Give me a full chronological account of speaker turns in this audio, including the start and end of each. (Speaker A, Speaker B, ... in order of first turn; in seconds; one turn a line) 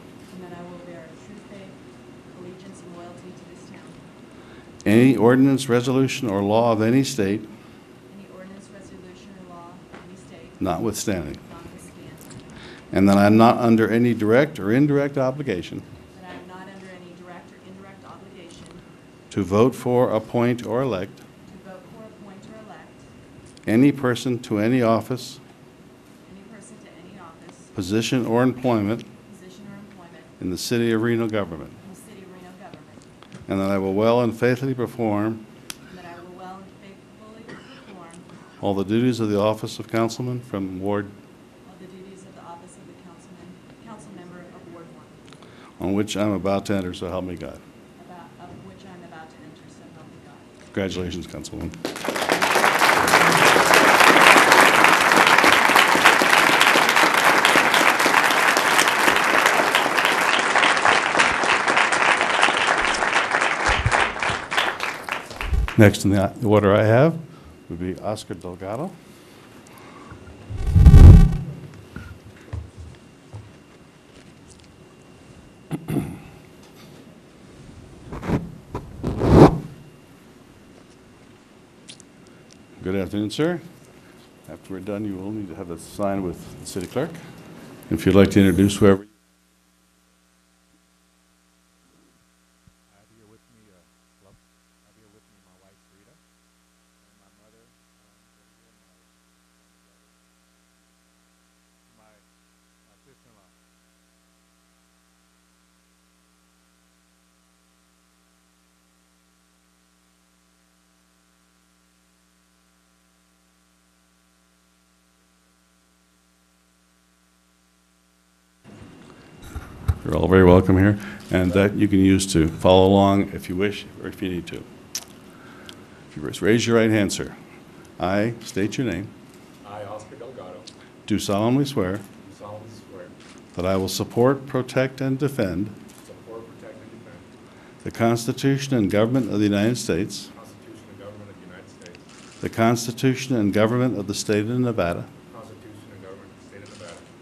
Speaker A: 0.3-1.8
Speaker A: 2.3-4.0
Speaker B: 4.8-7.5
Speaker A: 8.1-10.8
Speaker B: 10.6-11.4
Speaker A: 11.4-12.5
Speaker B: 12.9-15.8
Speaker A: 16.1-18.8
Speaker B: 19.3-21.2
Speaker A: 21.5-23.0
Speaker B: 23.6-25.4
Speaker A: 26.2-27.7
Speaker B: 27.7-29.1
Speaker A: 29.2-30.3
Speaker B: 30.4-31.8
Speaker A: 31.8-33.0
Speaker B: 33.5-35.5
Speaker A: 35.9-38.3
Speaker B: 38.6-41.1
Speaker A: 41.6-45.2
Speaker B: 45.8-47.6
Speaker A: 48.0-50.5
Speaker B: 50.7-51.8
Speaker B: 65.8-68.9
Speaker B: 82.8-83.6
Speaker B: 84.5-87.2
Speaker B: 87.9-89.0
Speaker C: 92.9-96.2
Speaker C: 97.0-100.1
Speaker C: 101.9-102.2
Speaker C: 102.9-103.6
Speaker B: 120.0-124.7
Speaker B: 126.1-127.3
Speaker B: 128.0-129.1
Speaker D: 129.6-130.7
Speaker B: 131.1-132.0
Speaker D: 132.2-133.1
Speaker B: 133.5-135.8
Speaker D: 136.0-137.3
Speaker B: 137.8-140.3
Speaker D: 140.3-142.1
Speaker B: 142.4-145.1
Speaker D: 145.3-147.1